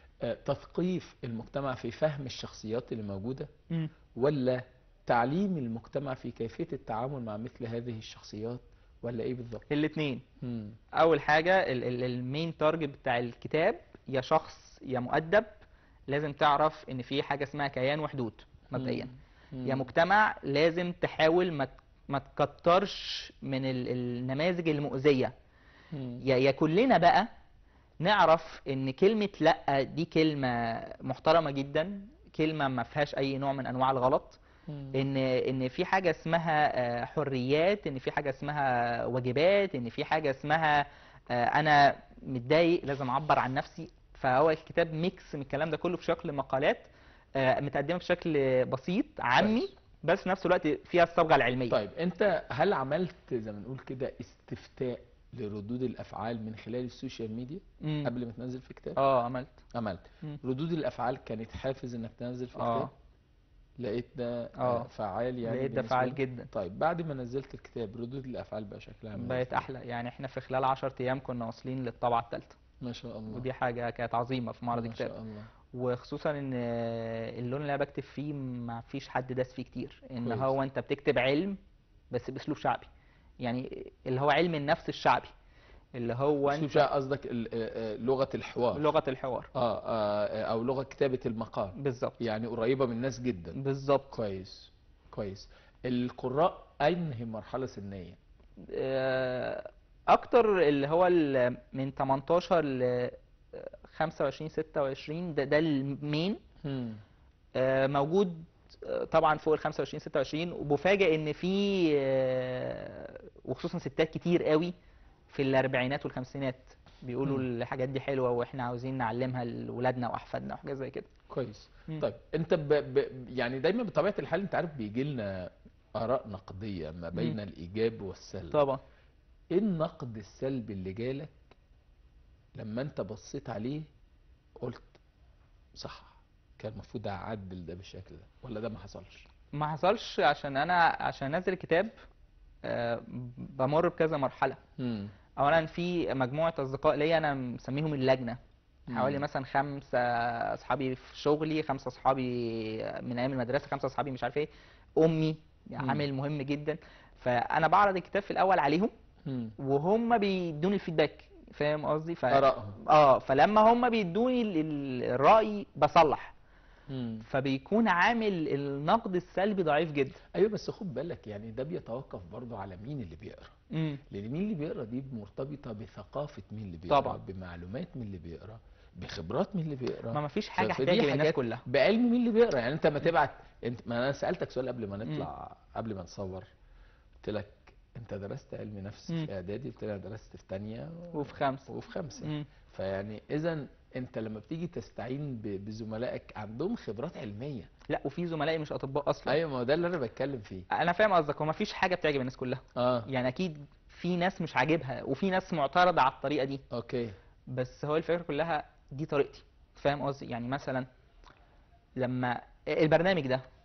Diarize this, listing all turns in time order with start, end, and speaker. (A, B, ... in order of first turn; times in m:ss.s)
0:00.2-0:03.5 A
0:04.1-0:09.6 A
0:09.7-0:10.2 B
0:10.4-0:10.8 A
0:11.0-0:15.5 B
0:16.1-0:19.1 B
0:18.7-0:19.9 A
0:19.6-0:25.3 B
0:25.9-0:26.2 A
0:26.2-0:27.3 B
0:28.0-0:34.4 B
0:34.7-0:35.0 A
0:34.9-0:51.8 B
0:49.4-0:49.7 A
0:51.7-0:59.0 A
0:57.8-0:58.1 B
0:59.0-0:59.6 B
0:59.7-1:02.9 A
1:02.6-1:02.9 B
1:03.8-1:09.7 A
1:04.6-1:04.9 B
1:05.4-1:06.5 B
1:09.2-1:12.6 B
1:12.8-1:13.5 A
1:13.3-1:15.1 B
1:14.7-1:15.5 A
1:15.7-1:21.6 B
1:20.2-1:20.5 A
1:22.1-1:22.9 B
1:23.4-1:25.3 B
1:26.0-1:26.8 B
1:26.5-1:28.9 A
1:28.7-1:29.5 B
1:29.5-1:33.6 A
1:31.8-1:32.2 B
1:33.5-1:34.1 B
1:34.1-1:38.2 A
1:38.6-1:46.4 B
1:46.6-1:47.0 A
1:47.6-1:54.7 B
1:55.3-2:01.1 B
2:01.3-2:08.6 A
2:07.1-2:07.4 B
2:08.5-2:08.8 B
2:09.5-2:11.5 A
2:12.6-2:13.8 A
2:14.6-2:15.0 A
2:15.8-2:19.2 A
2:19.5-2:21.9 B
2:22.6-2:24.6 B
2:24.8-2:25.1 A
2:25.4-2:38.9 B
2:28.9-2:29.2 A
2:35.8-2:36.0 A
2:39.2-2:39.5 A
2:39.6-2:46.3 B
2:42.3-2:42.8 A
2:46.9-2:47.2 A
2:47.2-2:50.2 B
2:50.3-2:53.5 A
2:53.7-2:54.0 B
2:54.1-3:06.5 A
2:56.9-2:57.2 B
3:00.1-3:01.6 B
3:07.2-3:17.7 A
3:11.1-3:12.5 B
3:17.9-3:19.4 B
3:19.2-3:20.6 A
3:20.7-3:26.6 B
3:22.8-3:23.1 A
3:26.7-3:27.1 A
3:27.5-3:30.9 B
3:32.0-3:33.4 B